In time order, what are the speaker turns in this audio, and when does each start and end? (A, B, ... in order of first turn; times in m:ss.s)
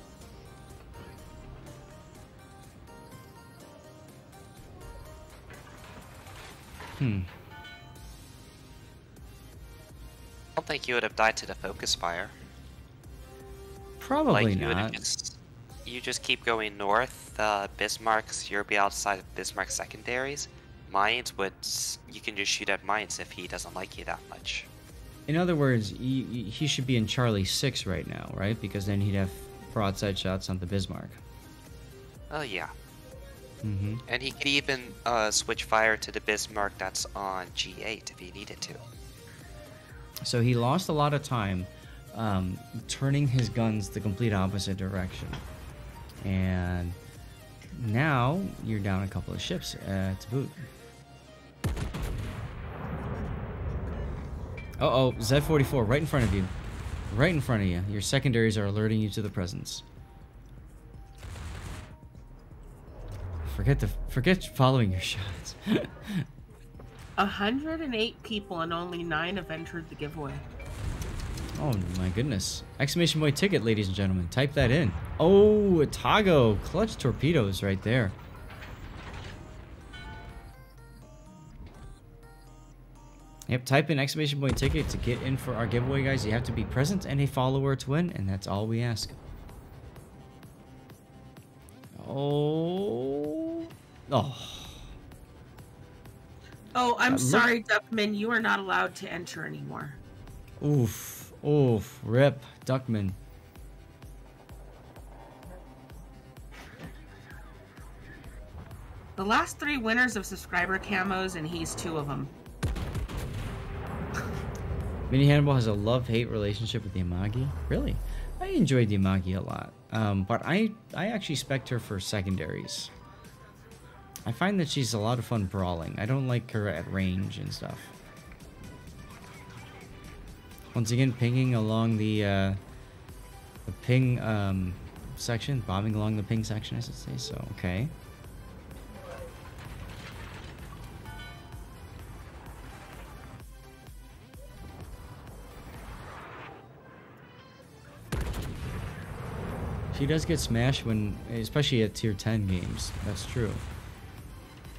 0:07.0-0:07.3 A
0:10.6-0:12.3 B
0:14.0-0:15.0 A
0:14.2-0:24.7 B
0:25.3-0:31.2 A
0:32.3-0:32.7 B
0:33.6-0:34.0 A
0:34.1-0:38.8 B
0:40.2-0:45.4 A
0:46.2-0:47.0 A
0:47.7-0:50.6 A
0:54.8-0:56.5 A
0:57.1-0:59.8 A
1:03.4-1:06.2 A
1:07.2-1:10.4 C
1:11.6-1:18.2 A
1:23.5-1:29.2 A
1:32.0-1:34.9 A
1:36.7-1:40.0 C
1:37.1-1:37.5 A
1:40.6-1:43.2 A
1:49.2-1:52.3 C
1:55.1-2:02.9 A
2:04.2-2:07.9 A
2:10.7-2:12.6 A
2:13.6-2:17.9 A
2:29.9-2:33.6 A